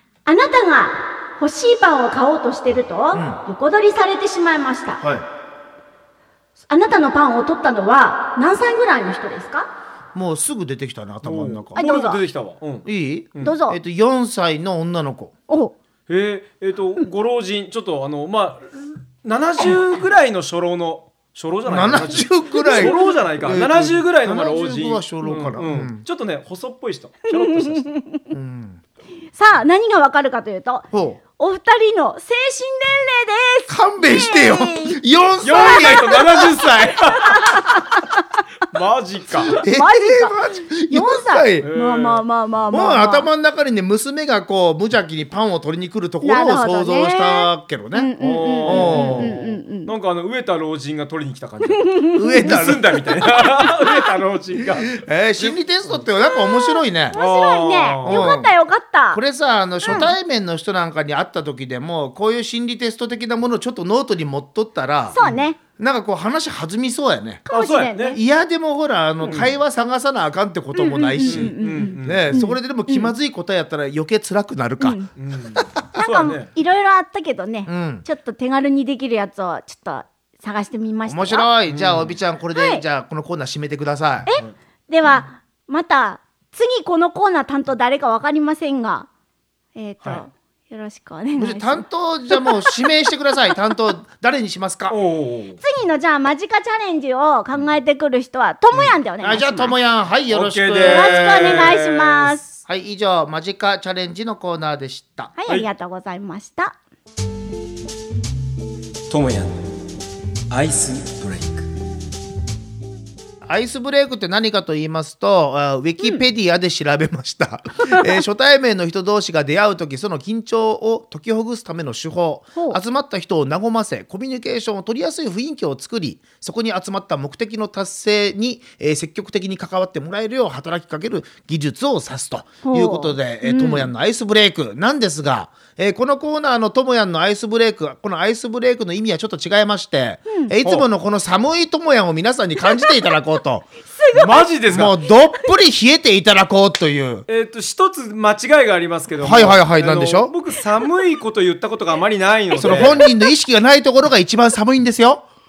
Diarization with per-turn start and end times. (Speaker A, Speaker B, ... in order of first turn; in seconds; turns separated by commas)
Speaker A: 0.2-5.0, Speaker B: 3.1-3.4, Speaker B: 5.0-5.2, Speaker A: 6.7-9.7, Speaker B: 10.1-11.8, Speaker C: 11.2-13.6, Speaker A: 11.8-12.2, Speaker B: 12.8-15.3, Speaker A: 13.4-13.8, Speaker A: 15.5-15.7, Speaker C: 16.1-27.9, Speaker B: 21.7-26.0, Speaker A: 22.5-23.0, Speaker A: 27.3-28.2, Speaker B: 28.3-28.8, Speaker A: 29.3-30.9, Speaker B: 30.9-31.2, Speaker A: 31.4-35.0, Speaker B: 33.7-36.6, Speaker C: 35.4-37.8, Speaker A: 35.5-36.4, Speaker A: 37.2-38.2, Speaker C: 38.7-39.5, Speaker B: 39.4-41.7, Speaker A: 39.6-43.3, Speaker C: 41.6-42.2, Speaker B: 42.7-48.1, Speaker A: 46.2-49.9, Speaker C: 48.2-56.0, Speaker B: 48.6-49.4, Speaker A: 51.7-52.2, Speaker B: 52.1-53.3, Speaker B: 54.6-57.2, Speaker A: 56.2-59.2, Speaker C: 57.1-58.3, Speaker B: 58.0-58.5, Speaker B: 59.1-65.2, Speaker A: 59.8-60.1, Speaker A: 65.1-65.6, Speaker C: 65.2-65.4, Speaker B: 65.8-67.4, Speaker A: 67.5-68.2, Speaker C: 67.5-68.2, Speaker B: 68.1-75.0, Speaker C: 69.2-69.5, Speaker A: 70.7-73.1, Speaker C: 71.2-72.4, Speaker A: 74.8-75.1, Speaker C: 75.2-76.5, Speaker B: 75.5-75.8, Speaker A: 75.9-81.5, Speaker B: 77.7-78.0, Speaker B: 81.1-84.3, Speaker C: 81.7-82.2, Speaker A: 82.5-82.8, Speaker A: 84.2-89.1, Speaker A: 89.7-92.8, Speaker B: 91.3-95.0, Speaker C: 94.9-95.6, Speaker A: 95.6-99.7, Speaker B: 99.2-101.7, Speaker C: 100.3-102.4, Speaker A: 100.8-102.4, Speaker B: 102.7-105.3, Speaker A: 105.4-106.8, Speaker C: 109.1-109.6, Speaker C: 110.5-111.7, Speaker B: 113.4-143.7, Speaker A: 132.6-133.9, Speaker A: 144.0-144.5, Speaker C: 144.1-145.0, Speaker B: 144.7-147.2, Speaker C: 147.3-153.0, Speaker B: 149.2-150.3, Speaker B: 152.6-155.2